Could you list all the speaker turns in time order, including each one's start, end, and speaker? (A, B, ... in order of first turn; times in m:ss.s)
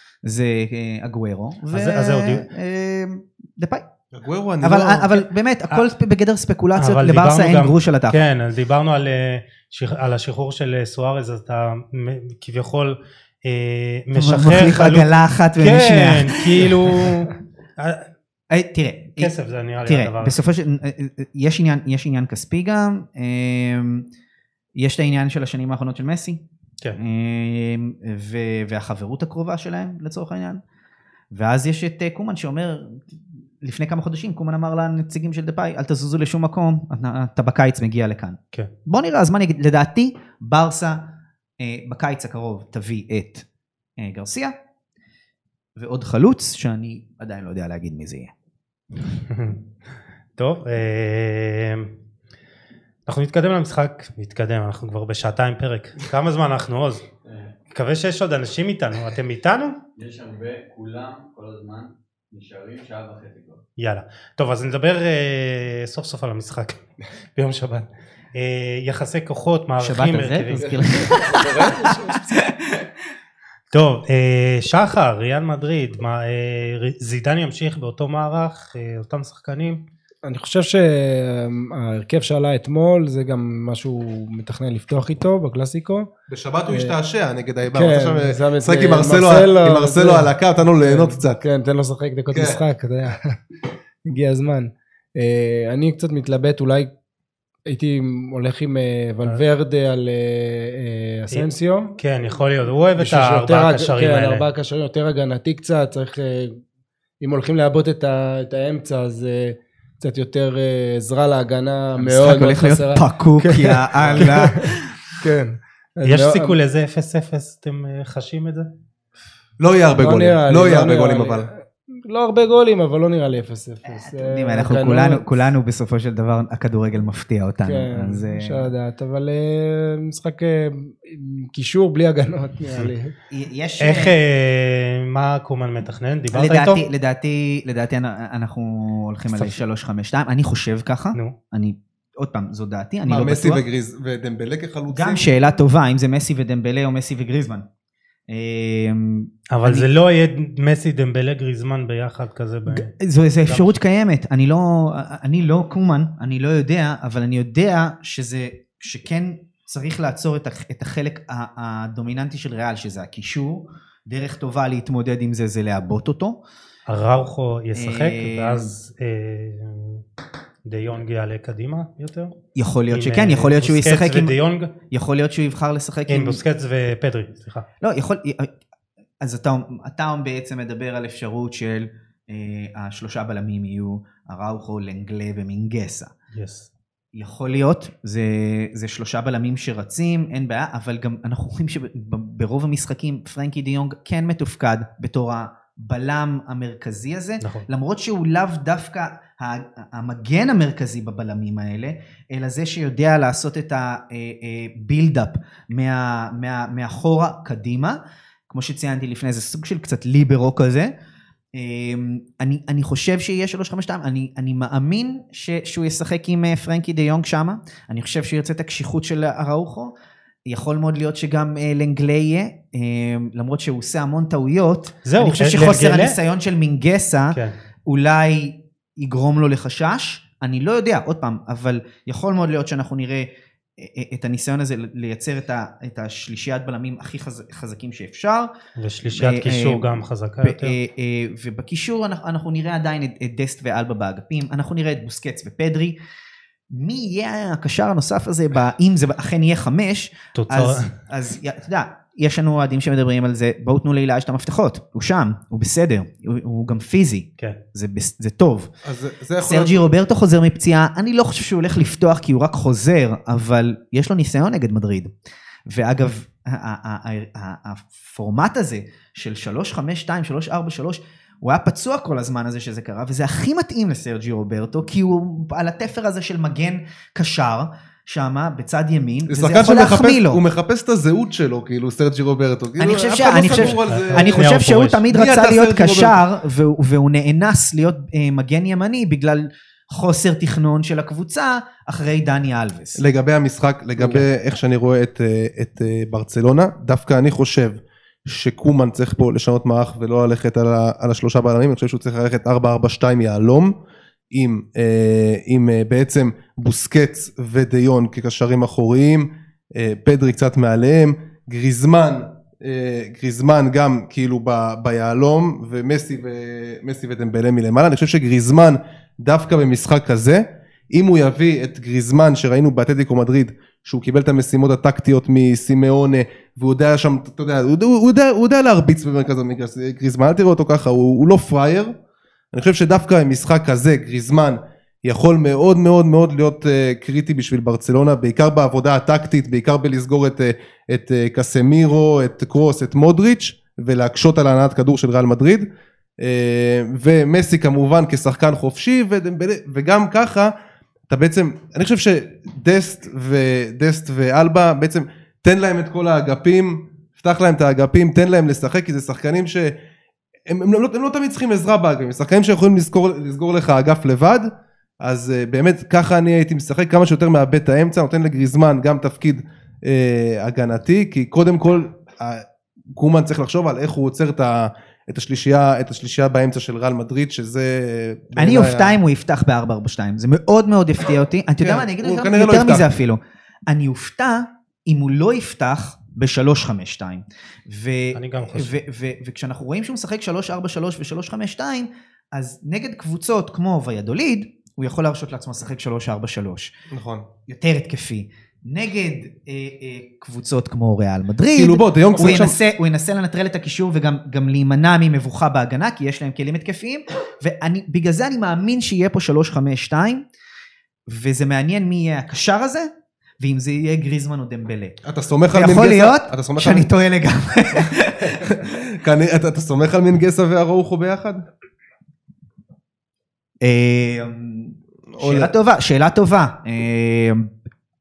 0:00.2-0:03.8 A
0:01.7-0:02.4 B
0:04.1-0:05.2 C
0:04.6-0:08.2 A
0:06.8-0:18.1 B
0:14.2-0:17.1 A
0:18.5-0:24.1 A
0:19.2-0:20.4 B
0:24.8-0:26.4 A
0:27.0-0:30.6 A
0:31.3-0:41.0 A
0:41.6-0:43.4 A
0:44.0-0:44.6 A
0:45.8-0:48.3 A
0:49.1-0:49.6 B
0:50.4-0:51.9 B
0:53.1-0:57.0 B
0:57.2-0:57.5 D
0:57.7-0:59.8 B
1:00.0-1:03.6 D
1:03.8-1:11.1 B
1:09.8-1:12.5 A
1:11.0-1:12.4 E
1:13.7-1:19.8 B
1:20.2-1:26.1 E
1:26.3-1:31.4 C
1:26.7-1:27.0 E
1:27.7-1:33.4 E
1:32.3-1:32.6 C
1:34.0-1:36.9 E
1:37.7-1:42.0 E
1:41.3-1:44.4 B
1:43.0-1:46.6 E
1:47.2-1:56.6 E
1:52.0-1:55.0 A
1:54.0-1:54.3 C
1:56.0-1:58.7 B
1:59.6-2:01.5 C
2:00.0-2:05.3 E
2:03.8-2:08.7 A
2:07.6-2:13.1 E
2:13.3-2:14.2 A
2:13.8-2:16.8 B
2:16.3-2:23.6 A
2:23.1-2:25.3 C
2:24.9-2:27.7 A
2:28.3-2:29.9 A
2:29.5-2:32.9 B
2:32.7-2:46.4 A
2:33.5-2:33.7 B
2:46.9-2:50.0 B
2:47.8-2:48.7 A
2:50.6-2:52.4 B
2:52.6-2:54.4 A
2:52.9-2:54.7 B
2:54.9-2:56.4 A
2:56.1-2:57.7 B
2:57.8-2:58.5 A
2:59.2-3:06.1 A
3:06.4-3:06.7 B
3:07.1-3:28.0 A
3:17.4-3:17.7 B
3:28.5-3:30.9 A
3:31.6-3:39.9 A
3:40.5-3:58.5 A
3:45.0-3:46.2 B
3:58.8-4:00.8 B
3:59.1-4:06.0 A
4:06.7-4:18.7 A
4:10.4-4:10.9 B
4:18.8-4:19.9 C
4:19.4-4:25.1 A
4:25.7-4:40.4 A
4:39.3-4:44.6 C
4:42.8-4:53.0 A
4:43.8-4:45.0 B
4:45.1-4:46.2 C
4:53.0-5:03.7 C
5:04.3-5:31.9 C
5:32.5-5:45.7 C
5:46.2-5:50.5 C
5:51.1-5:59.8 C
6:00.5-6:04.5 C
6:05.0-6:19.0 C
6:18.4-6:36.7 A
6:21.6-6:22.9 C
6:28.1-6:28.8 B
6:36.9-6:37.3 C
6:37.5-6:50.2 A
6:41.5-6:42.6 C
6:51.1-6:52.9 A
6:53.4-6:55.0 A
6:55.1-6:56.9 C
6:55.5-6:58.6 A
6:58.5-7:01.4 C
7:03.6-7:07.5 A
7:05.1-7:05.5 C